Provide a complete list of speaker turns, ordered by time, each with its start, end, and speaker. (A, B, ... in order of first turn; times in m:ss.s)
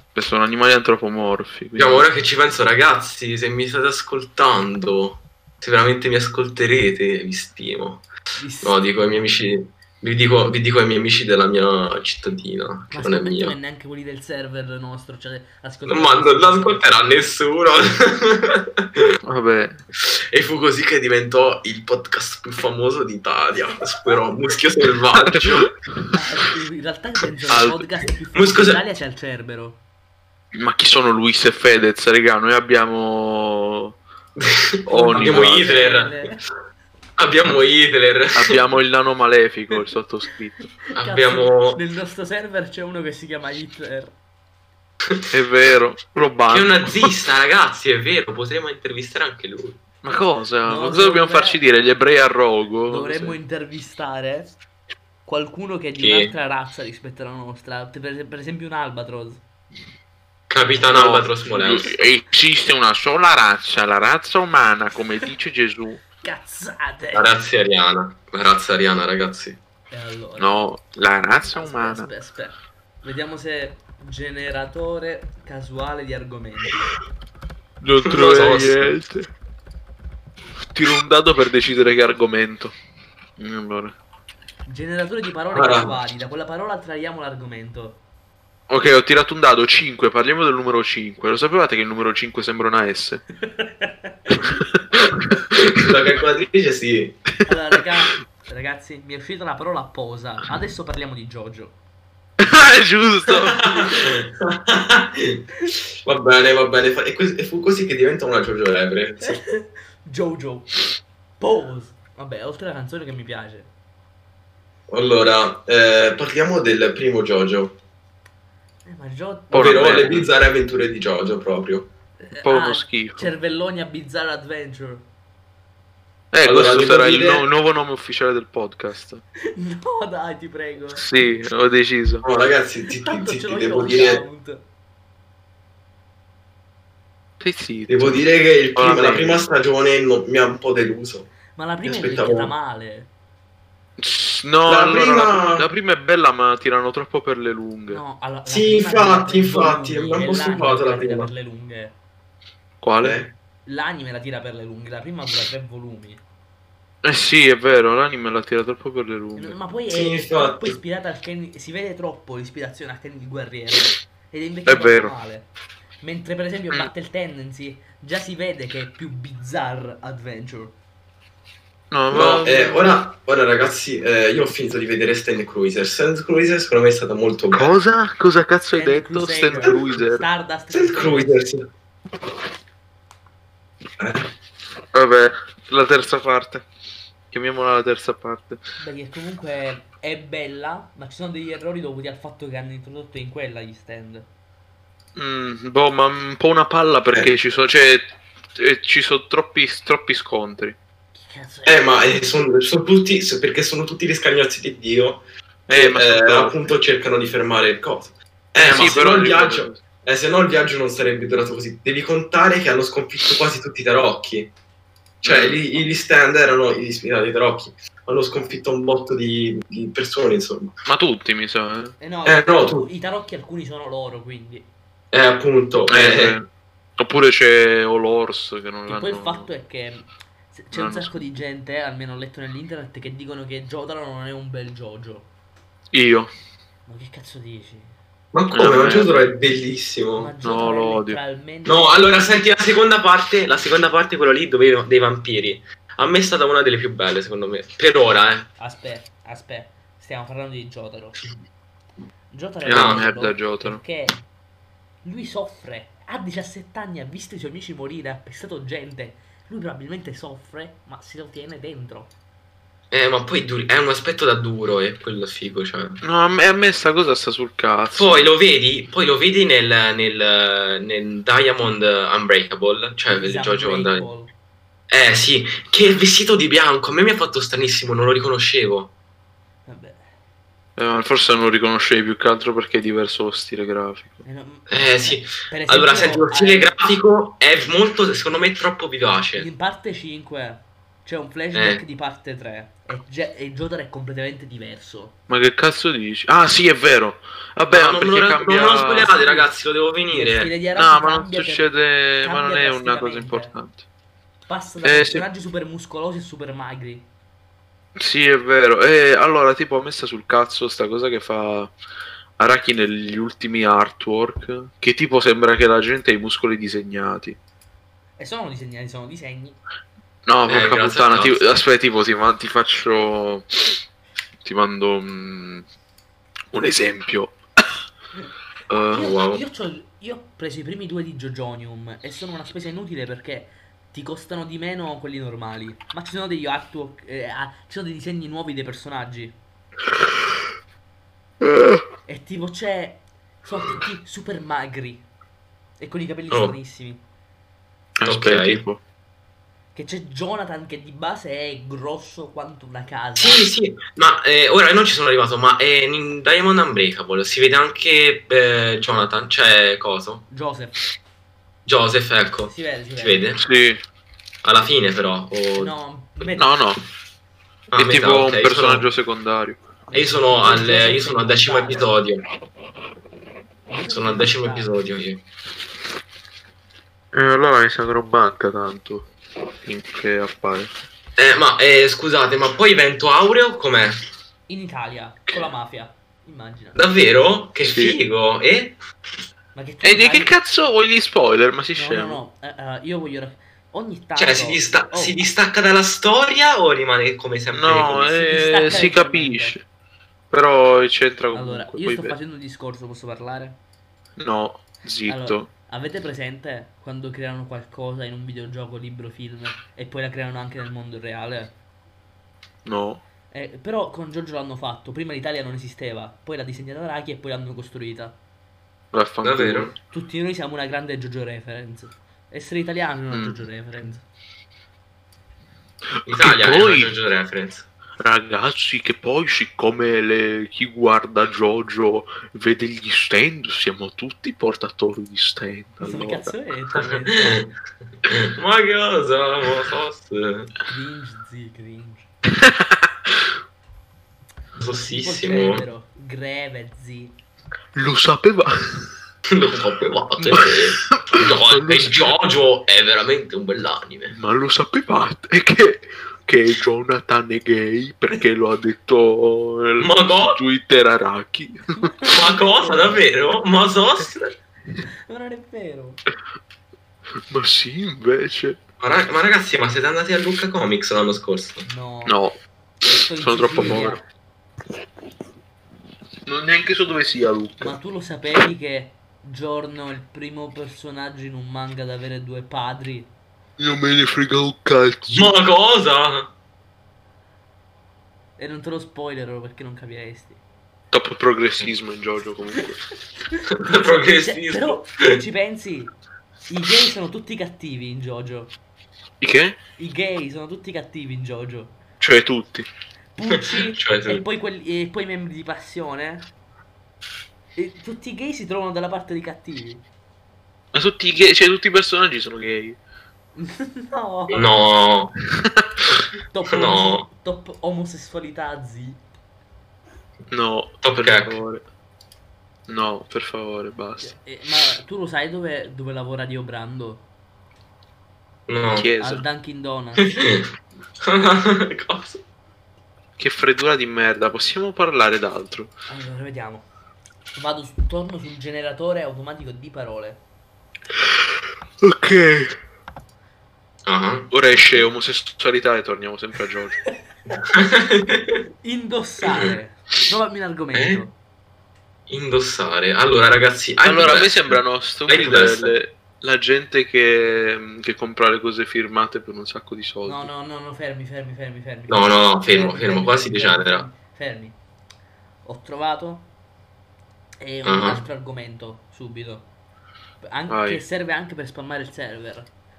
0:00.2-0:02.1 A
0:01.8-0:08.0 B
0:08.4-0:08.8 C
0:08.6-0:13.6 B
0:12.9-0:17.0 C
0:15.9-0:18.8 B
0:19.2-0:19.8 A
0:20.0-0:25.7 B
0:25.2-0:25.9 A
0:26.1-0:29.8 C
0:27.5-0:27.8 A
0:28.3-0:28.8 B
0:30.6-0:34.0 A
0:34.4-0:36.2 B
0:34.9-0:35.8 A
0:34.9-0:36.4 C
0:37.2-0:38.6 B
0:38.4-0:40.6 A
0:40.9-0:44.1 C
0:41.0-0:41.8 B
0:45.3-0:47.1 A
0:46.5-0:49.8 B
0:50.0-0:53.4 A
0:50.6-0:51.6 C
0:52.9-0:54.5 C
0:55.2-0:59.4 C
0:56.0-0:56.3 B
1:00.5-1:02.0 B
1:00.6-1:00.9 C
1:00.8-1:06.0 A
1:06.2-1:07.4 C
1:07.1-1:09.6 B
1:09.9-1:10.7 C
1:10.4-1:12.1 A
1:11.5-1:16.9 C
1:17.8-1:19.3 A
1:18.1-1:18.9 B
1:20.7-1:22.8 A
1:23.4-1:24.0 A
1:24.7-1:28.0 C
1:25.5-1:26.0 B
1:28.7-1:33.2 A
1:33.4-1:34.3 C
1:35.5-1:37.2 B
1:37.4-1:41.8 C
1:42.4-1:43.9 A
1:43.3-1:45.4 B
1:46.0-1:49.4 B
1:49.2-1:50.8 C
1:51.4-1:53.7 C
1:54.9-1:57.8 B
1:58.8-1:59.8 C
1:59.5-2:00.3 A
1:59.5-2:01.9 B
2:02.2-2:05.1 C
2:02.4-2:03.3 A
2:06.3-2:09.2 A
2:06.4-2:07.4 B
2:09.5-2:11.0 C
2:11.0-2:12.2 A
2:12.2-2:14.2 B
2:12.9-2:14.7 C
2:17.4-2:19.4 A
2:17.9-2:21.3 B
2:21.5-2:23.1 C
2:21.8-2:22.5 B
2:24.0-2:28.0 A
2:24.6-2:25.7 B
2:27.9-2:32.0 C
2:28.5-2:31.3 B
2:32.8-2:33.2 A
2:33.0-2:33.3 B
2:33.7-2:36.2 C
2:37.0-2:39.6 A
2:39.4-2:45.5 C
2:39.9-2:40.8 B
2:44.7-2:45.1 A
2:46.0-2:50.8 C
2:51.9-2:52.9 A
2:52.1-2:57.7 B
2:57.5-3:00.3 A
2:58.7-3:01.5 C
3:00.7-3:01.7 B
3:04.0-3:04.2 B
3:04.9-3:06.7 A
3:07.3-3:08.6 A
3:08.8-3:14.3 C
3:15.2-3:20.8 A
3:21.1-3:22.1 C
3:21.7-3:34.5 B
3:25.7-3:26.6 A
3:28.6-3:29.8 A
3:35.2-3:40.8 B
3:35.2-3:35.6 A
3:40.8-3:42.0 A
3:42.0-3:44.7 C
3:42.2-3:42.9 B
3:45.1-3:46.4 B
3:45.9-3:49.5 A
3:48.9-3:55.3 C
3:50.7-3:51.2 A
3:55.9-3:56.3 A
3:56.9-3:58.0 C
3:58.3-4:00.3 B
3:58.5-3:59.3 A
4:00.2-4:02.4 C
4:00.4-4:01.2 A
4:01.6-4:08.5 B
4:08.6-4:11.2 C
4:12.3-4:14.2 C
4:12.6-4:13.8 A
4:12.7-4:13.0 B
4:15.0-4:22.1 C
4:22.9-4:26.0 B
4:26.0-4:28.3 A
4:27.9-4:34.1 B
4:33.1-4:34.4 C
4:34.9-4:38.9 B
4:39.7-4:40.0 C
4:40.8-4:44.2 A
4:44.2-4:47.0 C
4:44.7-4:49.5 B
4:49.4-4:55.2 C
4:51.5-4:51.8 B
4:55.3-4:59.2 A
4:57.7-5:00.5 B
4:59.1-4:59.5 C
5:00.1-5:03.5 C
5:00.8-5:03.8 A
5:04.5-5:07.1 C
5:04.8-5:05.2 A
5:08.0-5:11.7 A
5:12.4-5:17.4 A
5:18.2-5:19.6 C
5:20.3-5:23.8 A
5:20.5-5:21.5 B
5:24.4-5:25.6 A
5:26.5-5:27.4 A
5:28.7-5:29.1 A
5:28.9-5:39.4 C
5:29.0-5:29.4 B
5:41.4-5:41.8 A
5:42.1-5:45.1 C
5:45.8-5:47.0 C
5:46.3-5:46.6 B
5:48.0-5:48.8 A
5:48.1-5:48.6 B
5:49.7-5:53.5 C
5:53.2-6:00.3 B
6:00.3-6:00.8 C
6:01.7-6:03.4 B
6:02.5-6:03.3 C
6:03.4-6:03.8 A
6:04.4-6:05.8 B
6:05.6-6:06.5 C
6:06.4-6:06.8 A
6:07.7-6:08.9 B
6:07.8-6:09.6 A
6:09.9-6:12.0 C
6:09.9-6:12.2 B
6:13.7-6:14.7 C
6:13.9-6:15.2 B
6:17.1-6:19.1 A
6:19.6-6:20.7 A
6:21.2-6:24.0 B
6:24.5-6:26.9 C
6:26.8-6:28.8 B
6:27.6-6:28.0 A
6:29.6-6:30.4 C
6:29.8-6:32.2 A
6:31.8-6:35.2 C
6:34.2-6:38.2 B
6:37.5-6:39.6 A
6:38.2-6:39.6 C
6:40.3-6:42.2 A
6:41.3-6:43.6 C
6:44.2-6:45.5 A
6:45.1-6:51.6 C
6:52.6-6:53.0 A
6:53.3-6:58.2 C
6:58.9-6:59.7 A
6:59.2-6:59.7 B
6:59.9-7:04.0 C
7:03.1-7:03.4 A
7:05.9-7:06.9 A
7:06.0-7:07.7 B
7:08.0-7:16.3 A
7:15.8-7:17.5 C
7:16.8-7:17.5 B
7:18.1-7:20.5 B
7:20.7-7:22.1 C
7:22.4-7:23.1 A
7:24.6-7:25.6 B
7:24.7-7:27.2 C
7:27.8-7:28.9 A
7:29.3-7:34.1 B
7:30.2-7:32.1 A
7:34.1-7:41.9 A
7:39.8-7:40.4 B
7:41.8-7:43.1 C
7:42.1-7:44.3 B
7:45.1-7:46.0 C
7:47.3-7:48.6 A
7:48.8-7:51.7 B
7:51.6-7:52.2 C
7:52.0-7:52.4 A
7:52.9-7:54.0 C
7:53.0-7:54.0 A
7:56.3-7:57.7 A
7:57.6-8:03.1 C
8:03.6-8:05.4 A
8:05.1-8:06.3 B
8:08.4-8:10.4 C
8:10.9-8:12.8 A
8:13.5-8:15.2 B
8:13.7-8:16.0 C
8:16.5-8:18.6 C
8:19.2-8:19.6 A
8:19.8-8:21.8 C
8:22.0-8:22.7 A
8:23.2-8:26.3 C
8:23.3-8:24.2 B
8:27.6-8:29.9 C
8:30.7-8:32.8 A
8:33.4-8:34.6 C
8:34.3-8:35.2 B
8:36.3-8:39.0 C
8:36.5-8:37.1 B
8:40.3-8:41.6 A
8:40.8-8:41.4 B
8:42.7-8:44.2 A
8:44.0-8:47.1 C
8:48.5-8:48.9 B
8:48.8-8:49.2 A
8:49.0-8:50.3 C
8:50.0-8:50.4 B
8:51.0-8:52.2 B
8:53.2-8:55.7 A
8:55.9-8:56.7 C
8:57.4-9:00.2 C
9:01.8-9:02.6 A
9:03.9-9:04.3 B
9:04.3-9:06.8 A
9:07.4-9:08.3 B
9:08.6-9:11.2 C
9:09.3-9:09.6 B
9:10.7-9:11.0 B
9:12.1-9:15.8 B
9:13.8-9:20.3 A
9:20.0-9:24.6 C
9:21.9-9:23.9 B
9:25.4-9:26.3 C
9:27.4-9:29.5 C
9:27.7-9:28.0 B
9:30.2-9:32.5 C
9:30.5-9:30.8 A